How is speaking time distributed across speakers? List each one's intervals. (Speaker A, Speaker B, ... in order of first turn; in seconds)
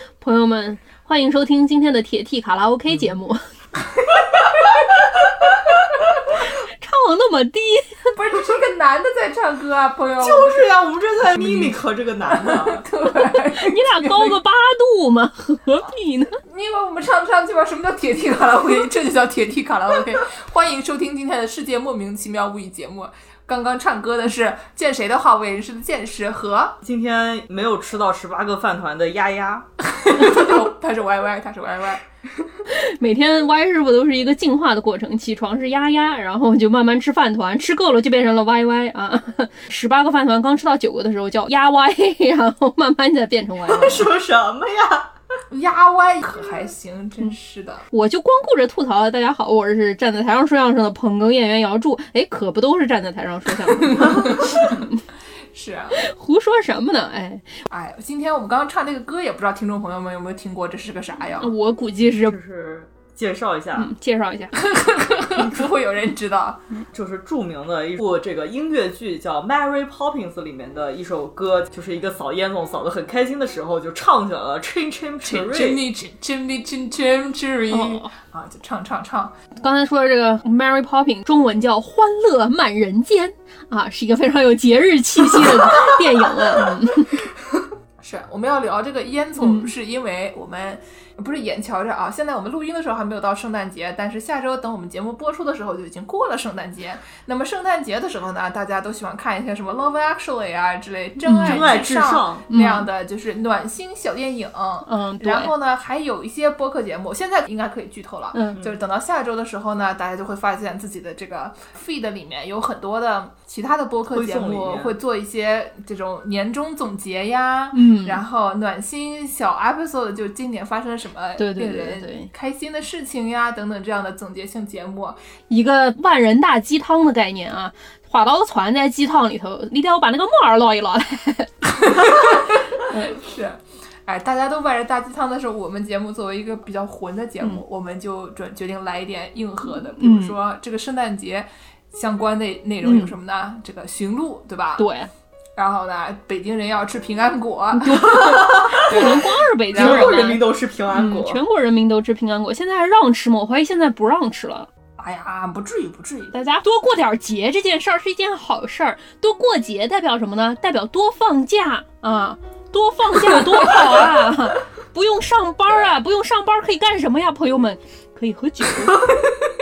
Speaker A: 0.2-3.4, 6.4-8.1, 13.6-16.4, 32.7-44.1, 47.9-55.0, 56.0-57.6, 61.4-62.4, 63.8-64.7, 77.7-78.1, 79.6-87.2, 89.4-89.7, 101.2-101.7, 102.5-102.9, 104.8-105.5, 108.3-108.6, 117.7-118.2, 121.4-122.3, 125.5-131.5, 132.8-133.2, 139.9-140.4, 142.8-143.1, 144.8-145.1, 147.8-154.7, 156.3-169.1
Speaker B: 8.1-14.4, 16.4-26.8, 29.9-32.0, 45.5-47.9, 53.8-54.8, 55.5-56.0, 57.7-61.5, 64.6-66.6, 75.2-79.3, 85.4-86.8, 88.0-125.2, 131.7-144.9, 145.6-150.2, 155.0-156.4
Speaker C: 10.2-12.8, 26.8-29.7, 43.6-45.1, 62.2-63.9, 66.9-75.8, 101.4-102.4, 114.1-115.0, 148.0-149.2, 149.7-151.4